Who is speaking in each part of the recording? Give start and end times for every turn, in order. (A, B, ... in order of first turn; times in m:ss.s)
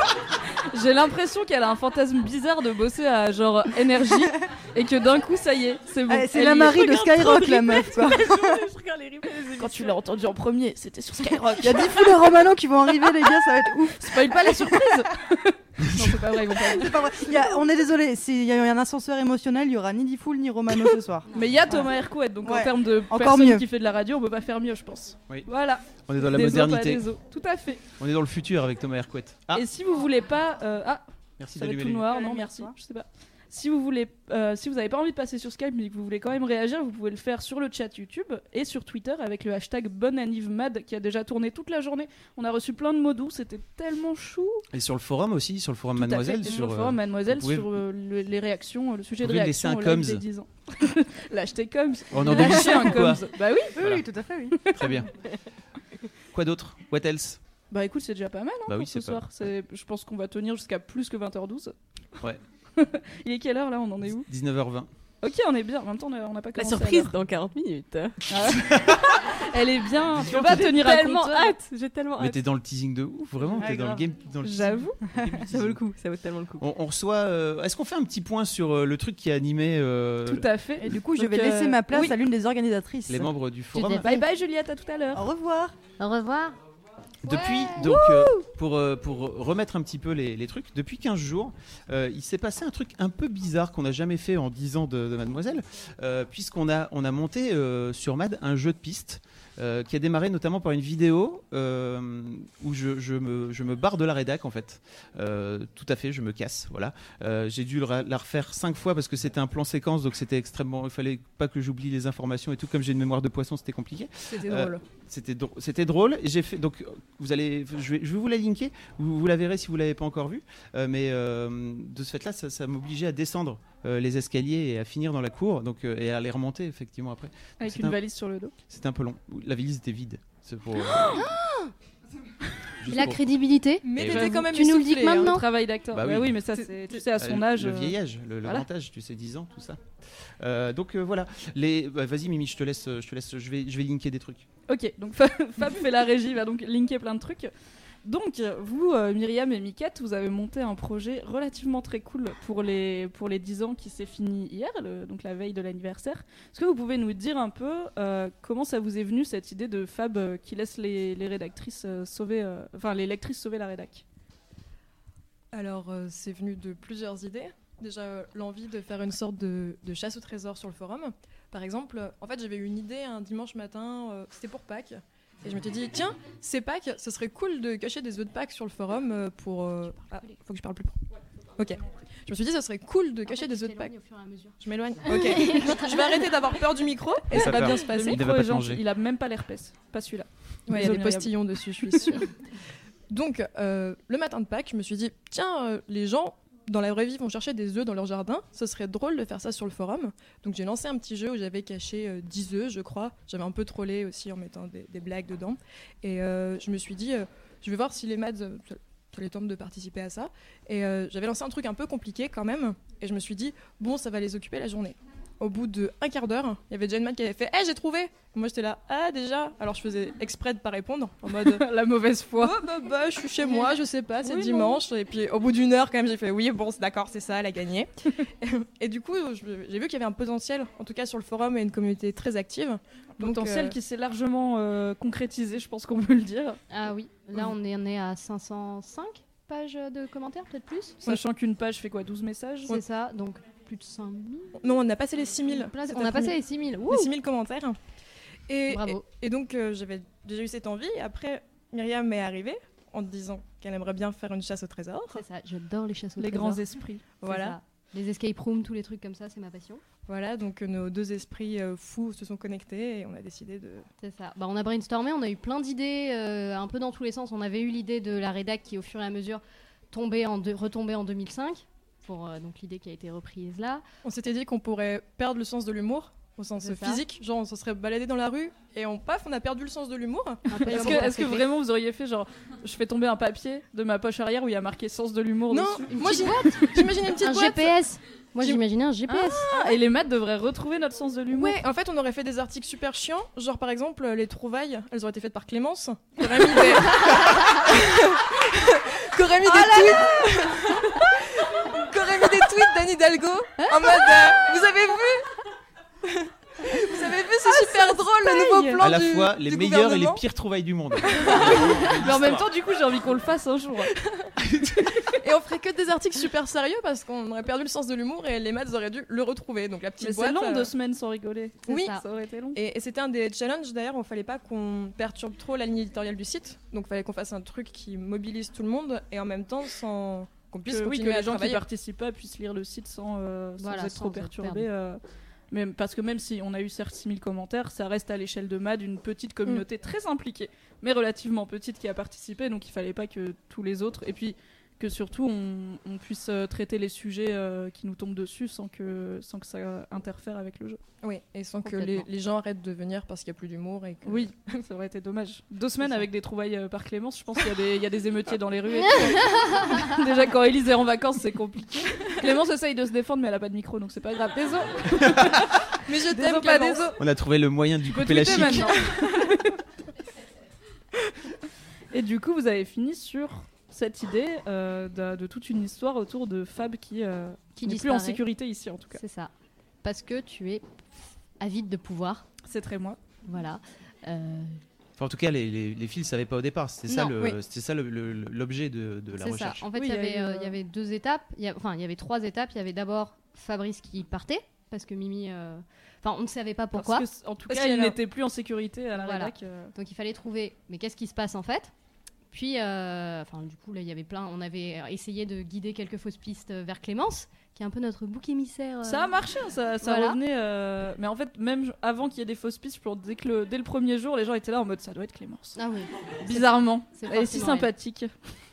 0:00.7-0:06.9 A
0:06.1-0:08.6 B
0:06.6-0:10.0 C
0:09.6-0:12.0 A
0:11.4-0:15.0 B
0:14.0-0:17.4 A
0:16.5-0:21.9 B
0:21.3-0:27.8 A
0:22.4-0:23.6 B
0:26.0-0:27.0 D
0:28.0-0:29.6 D
0:29.5-0:31.0 A
0:31.4-0:32.2 D
0:31.6-0:44.7 A
0:32.1-0:32.7 B
0:44.7-0:47.7 D
0:46.0-0:53.8 A
0:49.2-0:50.2 D
0:52.1-0:53.3 D
0:52.3-0:53.0 B
0:53.8-0:54.9 B
0:53.8-0:54.1 D
0:54.7-0:55.1 D
0:56.3-0:57.4 D
0:57.7-1:01.7 A
0:58.7-0:59.2 D
1:02.8-1:04.3 A
1:04.3-1:04.9 D
1:05.2-1:07.2 A
1:06.6-1:08.2 C
1:08.3-1:11.6 A
1:08.5-1:09.2 D
1:10.2-1:12.5 C
1:12.2-1:14.9 D
1:13.6-1:14.0 B
1:14.4-1:15.0 A
1:15.3-1:16.7 C
1:15.5-1:15.8 D
1:16.6-1:20.5 D
1:20.3-1:22.1 A
1:20.8-1:23.3 B
1:23.1-1:24.1 D
1:23.8-1:24.2 E
1:24.0-1:25.3 A
1:25.1-1:25.8 B
1:26.0-1:26.6 E
1:27.2-2:08.0 D
1:27.5-1:27.7 E
1:27.9-1:28.4 B
1:54.5-1:54.8 F
2:07.6-2:08.5 A
2:08.7-2:11.3 D
2:11.1-2:11.7 E
2:12.8-2:13.2 D
2:12.9-2:15.4 E
2:13.8-2:15.4 F
2:14.0-2:14.3 D
2:14.1-2:14.4 A
2:15.2-2:18.7 A
2:15.9-2:16.4 D
2:17.2-2:19.8 D
2:20.4-2:24.5 D
2:24.7-2:27.5 A
2:28.0-2:44.0 A
2:45.5-3:01.0 F
2:59.9-3:00.3 E
3:01.6-3:04.0 F
3:03.3-3:06.2 E
3:04.6-3:08.2 F
3:07.3-3:08.8 D
3:07.3-3:11.3 A
3:10.7-3:12.3 F
3:11.8-3:12.1 A
3:13.1-3:41.7 F
3:41.3-3:42.6 A
3:42.4-3:53.8 F
3:44.2-3:44.8 A
3:53.2-3:56.6 A
3:56.7-4:01.0 E
4:01.0-4:02.7 A
4:02.7-4:04.6 E
4:04.6-4:07.8 F
4:05.5-4:07.1 E
4:08.5-4:15.2 F
4:08.7-4:09.0 E
4:15.1-4:16.6 E
4:16.2-4:17.0 A
4:17.2-4:17.6 F
4:17.2-4:19.8 E
4:20.1-4:23.8 F
4:24.0-4:33.8 E
4:34.0-4:41.1 F
4:36.6-4:37.0 E
4:40.5-4:41.5 E
4:40.6-4:46.9 A
4:45.5-4:47.8 F
4:45.9-4:49.6 E
4:49.1-4:51.6 A
4:51.3-5:05.3 F
4:59.5-5:00.1 E
5:03.6-5:04.0 E
5:06.0-5:10.2 F
5:08.8-5:12.5 D
5:11.2-5:11.6 F
5:11.2-5:13.9 A
5:15.1-5:20.7 F
5:20.0-5:22.6 A
5:21.7-5:22.0 E
5:21.7-5:22.0 F
5:22.5-5:31.6 F
5:30.7-5:35.0 A
5:33.6-5:34.7 E
5:35.5-5:50.8 A
5:51.0-5:54.3 F
5:51.6-5:52.1 E
5:54.0-6:07.0 A
5:59.2-5:59.8 E
6:05.9-6:06.9 F
6:07.0-6:08.8 D
6:07.9-6:09.5 A
6:08.4-6:09.0 F
6:11.9-6:19.0 A
6:17.6-6:18.2 E
6:19.0-6:19.3 E
6:19.8-6:20.6 E
6:21.4-6:22.2 E
6:22.5-6:23.0 A
6:23.3-6:24.6 E
6:25.0-6:29.7 D
6:29.2-6:37.1 E
6:29.8-6:30.6 A
6:36.7-6:39.7 A
6:37.5-6:38.0 F
6:39.0-6:41.7 E
6:42.3-6:49.2 E
6:48.8-6:55.6 A
6:49.8-6:50.2 E
6:55.6-6:57.7 E
6:56.2-6:58.1 A